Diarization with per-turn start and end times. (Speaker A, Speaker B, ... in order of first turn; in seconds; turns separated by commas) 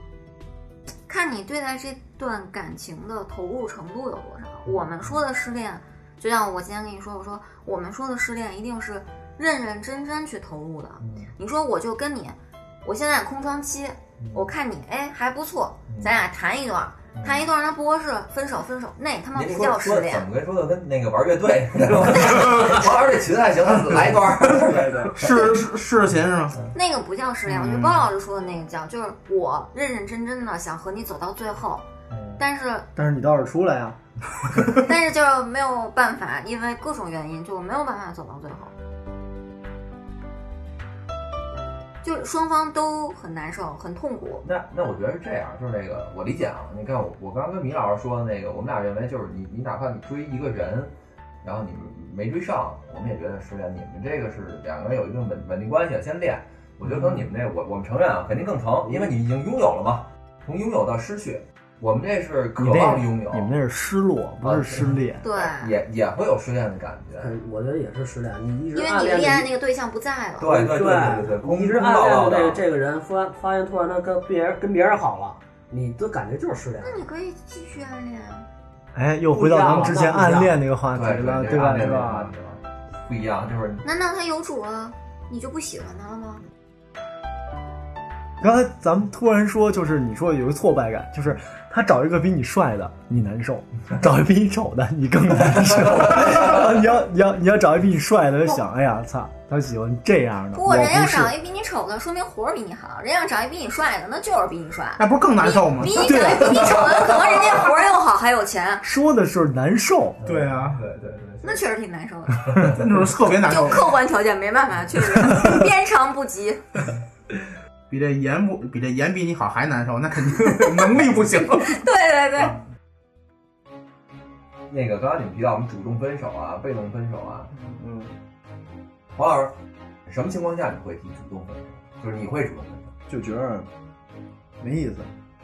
Speaker A: 1.1-20.3, Speaker B: 4.7-5.2, Speaker B: 11.0-11.3, Speaker B: 14.2-14.5, Speaker B: 15.9-16.2, Speaker B: 17.1-17.5, Speaker B: 19.3-25.2, Speaker C: 24.6-25.1, Speaker D: 25.1-26.6, Speaker A: 26.7-31.9, Speaker D: 27.5-28.1, Speaker B: 32.1-32.4, Speaker A: 32.4-32.9, Speaker C: 33.0-34.0, Speaker A: 34.8-38.7, Speaker A: 42.0-44.4, Speaker B: 44.4-50.9, Speaker B: 51.4-63.5, Speaker E: 58.9-59.1, Speaker C: 62.6-65.2, Speaker B: 64.4-67.3, Speaker A: 65.2-65.8, Speaker E: 67.2-69.5, Speaker A: 68.8-70.6, Speaker B: 70.4-72.6, Speaker E: 70.4-77.0, Speaker A: 76.8-78.5, Speaker C: 78.9-82.3, Speaker E: 79.3-80.6, Speaker B: 80.9-83.8, Speaker A: 83.8-86.4, Speaker C: 88.4-101.3, Speaker B: 95.9-96.6, Speaker A: 100.5-108.8, Speaker D: 105.0-106.3, Speaker C: 106.0-106.7, Speaker B: 106.5-107.5, Speaker C: 108.8-110.2, Speaker B: 110.2-111.6, Speaker D: 110.2-110.8, Speaker A: 111.4-112.5, Speaker B: 112.4-112.8, Speaker D: 112.7-114.0, Speaker A: 113.5-116.6, Speaker D: 117.9-121.8, Speaker A: 121.7-122.6, Speaker B: 124.7-127.5, Speaker D: 127.5-128.1, Speaker B: 129.2-129.5, Speaker B: 130.1-132.9, Speaker C: 133.1-133.7, Speaker C: 134.6-135.1